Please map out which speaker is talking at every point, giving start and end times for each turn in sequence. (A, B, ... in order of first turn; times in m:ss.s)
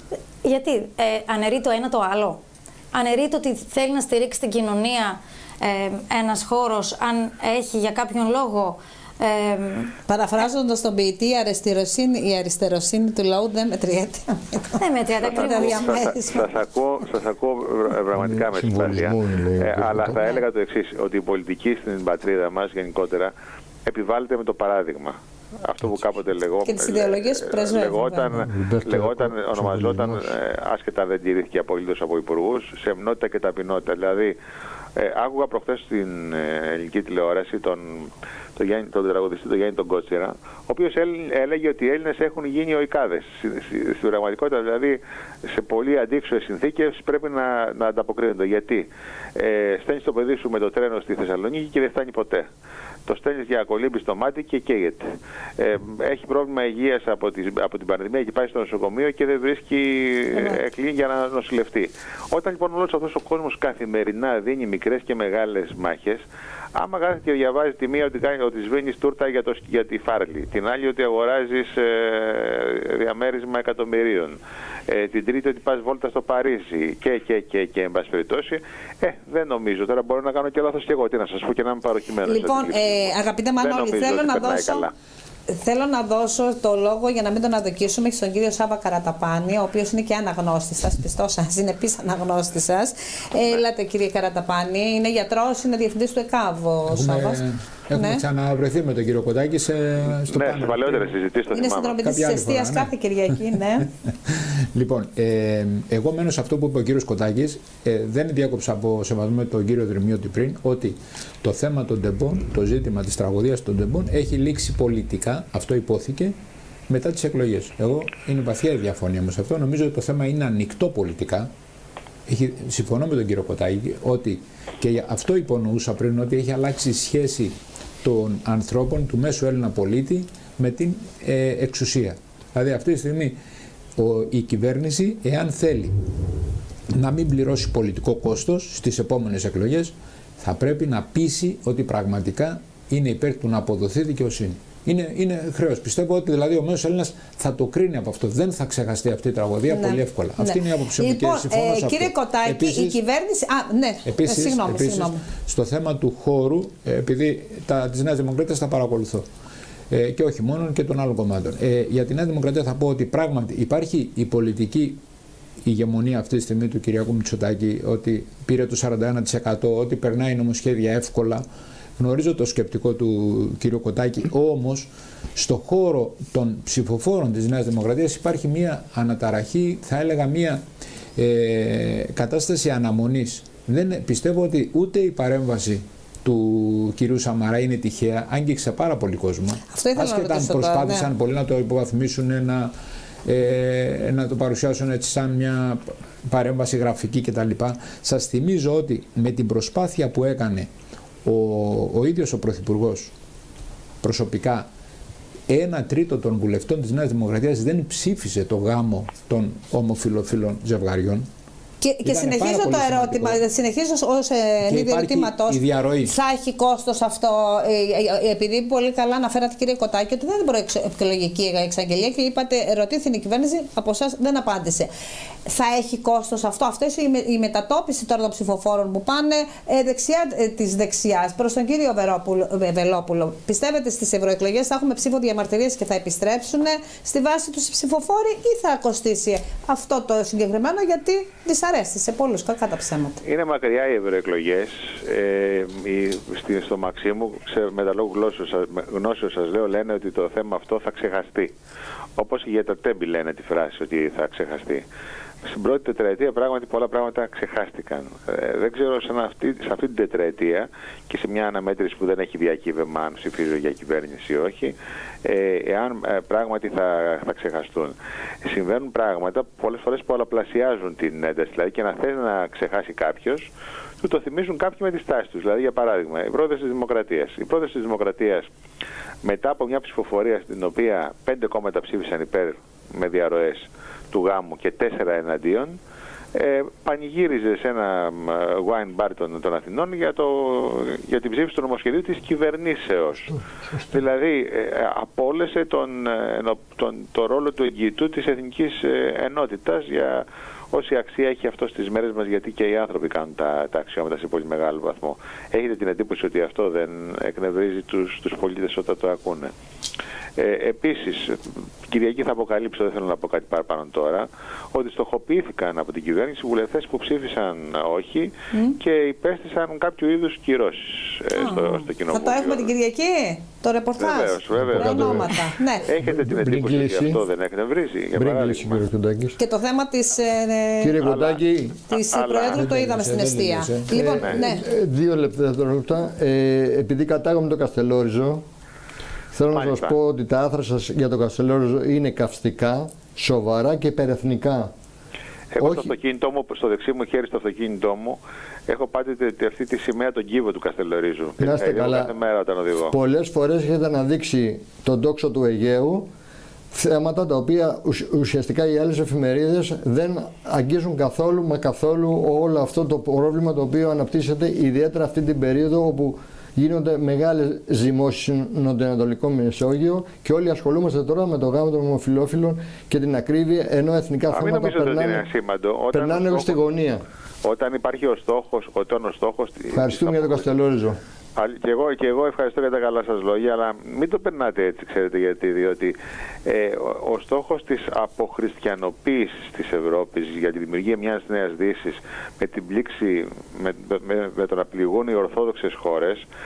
0:00.4-0:02.4 A
0:02.9-0:09.9 A
0:10.1-0:16.5 B
0:14.8-0:16.0 A
0:15.2-0:23.3 C
0:18.2-0:20.4 D
0:23.9-0:34.4 C
0:26.7-0:28.5 B
0:28.3-0:30.4 D
0:35.0-0:52.5 C
0:53.1-0:55.0 C
0:55.6-1:06.2 C
1:06.7-1:14.4 C
1:14.9-1:24.9 C
1:22.3-1:24.9 B
1:25.5-1:37.4 B
1:36.9-1:41.2 E
1:37.9-1:38.2 B
1:40.3-1:42.0 C
1:41.5-1:43.9 B
1:42.0-1:42.9 E
1:44.3-1:56.4 E
1:56.9-2:01.5 E
2:02.3-2:13.4 E
2:14.0-2:16.0 E
2:16.9-2:33.0 E
2:29.7-2:35.2 B
2:34.1-2:39.3 E
2:39.9-2:45.0 E
2:45.6-2:51.4 E
2:52.0-3:00.6 E
3:01.2-3:12.7 E
3:09.7-3:11.1 B
3:13.2-3:20.7 E
3:21.2-3:23.1 E
3:24.0-3:24.7 E
3:25.5-3:31.3 E
3:31.8-3:44.9 B
3:32.0-3:33.4 E
3:34.6-3:36.1 E
3:45.5-4:03.2 B
4:03.2-4:11.5 C
4:12.2-4:14.8 C
4:15.4-4:33.5 C
4:34.0-4:38.5 C
4:39.2-4:45.8 C
4:46.3-4:53.4 C
4:53.9-5:09.5 C
5:10.4-5:22.7 C
5:21.4-5:25.9 B
5:24.0-5:28.8 C
5:24.6-5:25.4 D
5:26.0-5:27.2 D
5:28.2-5:29.4 D
5:29.4-5:31.0 B
5:30.8-5:31.8 D
5:31.0-5:32.7 C
5:31.9-5:34.6 B
5:32.5-5:34.2 E
5:34.0-5:38.4 D
5:39.3-5:44.7 D
5:39.5-5:40.0 C
5:45.5-5:53.0 C
5:45.6-5:45.9 D
5:51.4-5:52.1 D
5:52.9-5:56.1 D
5:56.7-6:15.2 D
6:14.3-6:16.6 C
6:15.9-6:17.0 D
6:17.4-6:20.5 C
6:19.7-6:21.0 D
6:21.4-6:36.2 C